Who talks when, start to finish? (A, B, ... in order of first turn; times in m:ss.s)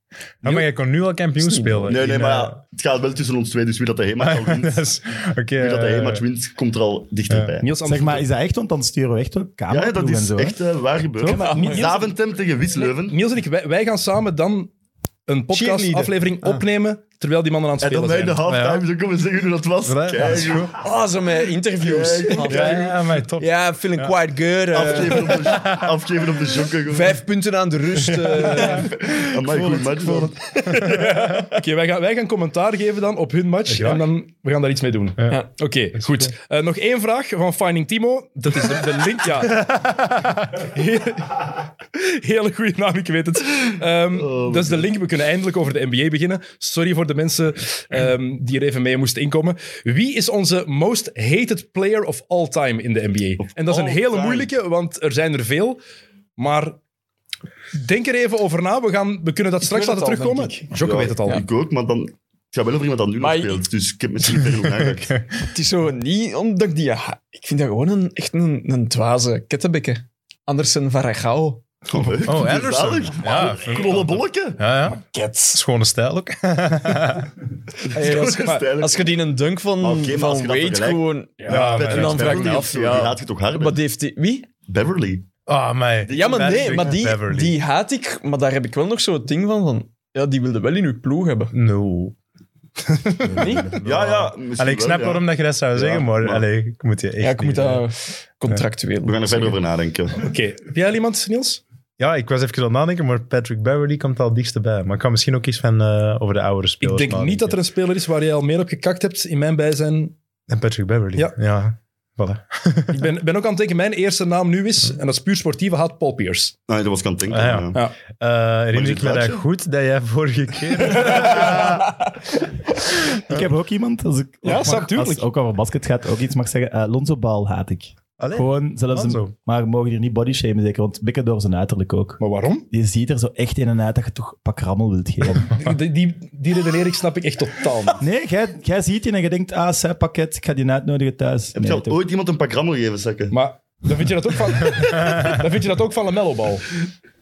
0:00.4-0:02.6 A
0:01.4-0:02.0 B
0:01.9-0:04.8 C
0:04.2-0:06.2 A
0:05.6-0:07.7 C
0:07.3-0:07.6 A
0:07.6-0:08.2 D
0:07.8-0:10.6 E
0:09.7-0:13.2 C
0:11.2-0:11.5 E
0:11.2-0:11.9 B
0:11.3-0:12.1 D
0:12.8-0:14.7 D
0:15.3-0:18.4 D
0:15.5-0:16.6 B
0:17.8-0:20.8 C
0:18.4-0:18.8 A
0:19.8-0:20.8 A
0:20.7-0:25.7 B
0:21.8-0:22.9 C
0:22.4-0:24.1 A
0:24.7-0:27.2 C
0:26.9-0:31.5 B
0:28.6-0:30.4 C
0:30.8-0:31.1 A
0:31.1-0:55.8 D
0:33.7-0:34.0 A
0:36.0-0:36.3 A
0:39.7-0:40.2 A
0:44.1-0:44.9 C
0:53.4-0:54.5 C
0:56.4-0:56.8 D
0:57.7-1:01.4 D
0:59.6-1:00.7 B
1:00.8-1:05.1 C
1:03.2-1:03.6 B
1:04.3-1:05.5 A
1:05.5-1:11.6 B
1:11.9-1:14.6 C
1:12.2-1:15.0 A
1:15.1-1:15.6 B
1:15.5-1:17.3 A
1:17.9-1:19.1 C
1:17.9-1:24.5 B
1:18.4-1:18.7 D
1:19.8-1:23.8 C
1:21.5-1:22.6 A
1:21.5-1:22.0 D
1:24.6-1:25.3 C
1:25.5-1:27.6 A
1:26.0-1:27.0 C
1:26.1-1:31.5 B
1:31.5-1:32.2 A
1:33.4-1:37.8 A
1:33.4-1:33.7 D
1:33.4-1:33.7 E
1:33.7-1:36.4 C
1:37.2-1:39.6 B
1:39.0-1:40.2 C
1:40.1-1:41.6 D
1:42.0-1:47.6 A
1:46.8-1:50.2 D
1:50.5-1:53.0 A
1:52.9-1:56.5 D
1:56.7-1:57.8 C
1:57.3-2:01.9 A
1:58.7-1:59.4 C
2:00.9-2:01.3 D
2:03.1-2:15.5 E
2:04.4-2:05.2 D
2:04.5-2:04.8 B
2:08.2-2:09.3 A
2:12.2-2:12.6 D
2:15.4-2:18.0 D
2:18.0-2:22.0 E
2:21.6-2:23.4 C
2:23.3-2:26.7 D
2:24.9-2:25.3 A